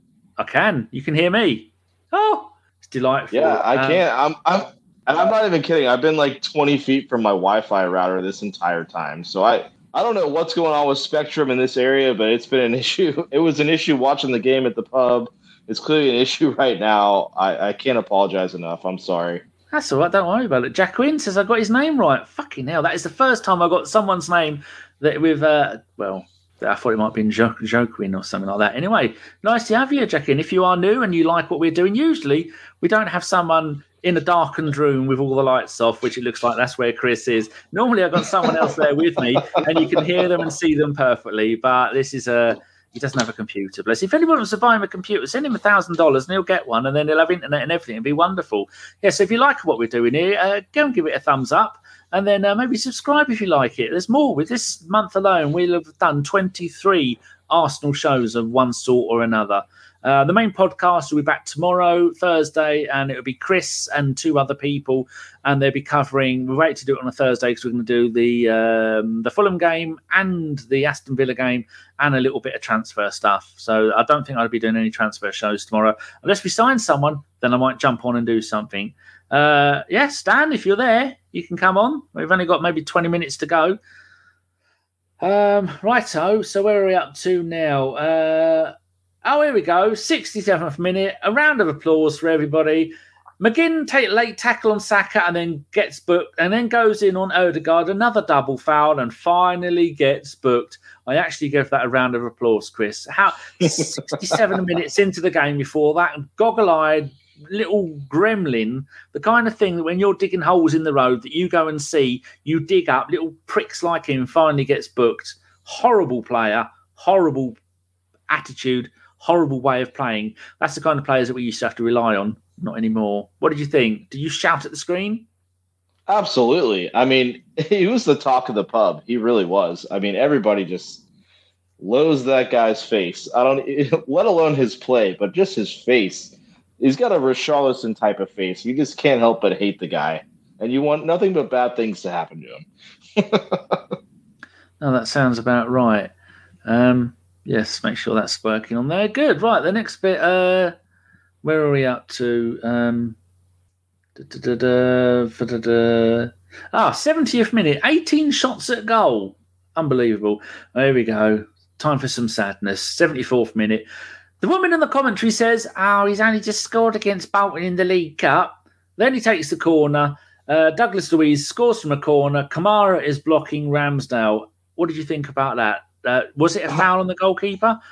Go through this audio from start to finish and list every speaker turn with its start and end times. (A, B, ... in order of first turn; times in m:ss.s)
0:00.4-0:04.0 A
0:03.3-0:19.4 B
0:19.7-1:23.8 A
0:39.7-0:40.0 B
1:25.2-1:57.6 A
1:58.3-2:05.3 A
2:06.1-2:11.0 B
2:11.8-2:24.0 B
2:24.8-2:26.1 A
2:26.7-2:30.7 A
2:31.4-2:33.2 A
2:34.2-2:43.9 A
2:44.4-2:57.8 A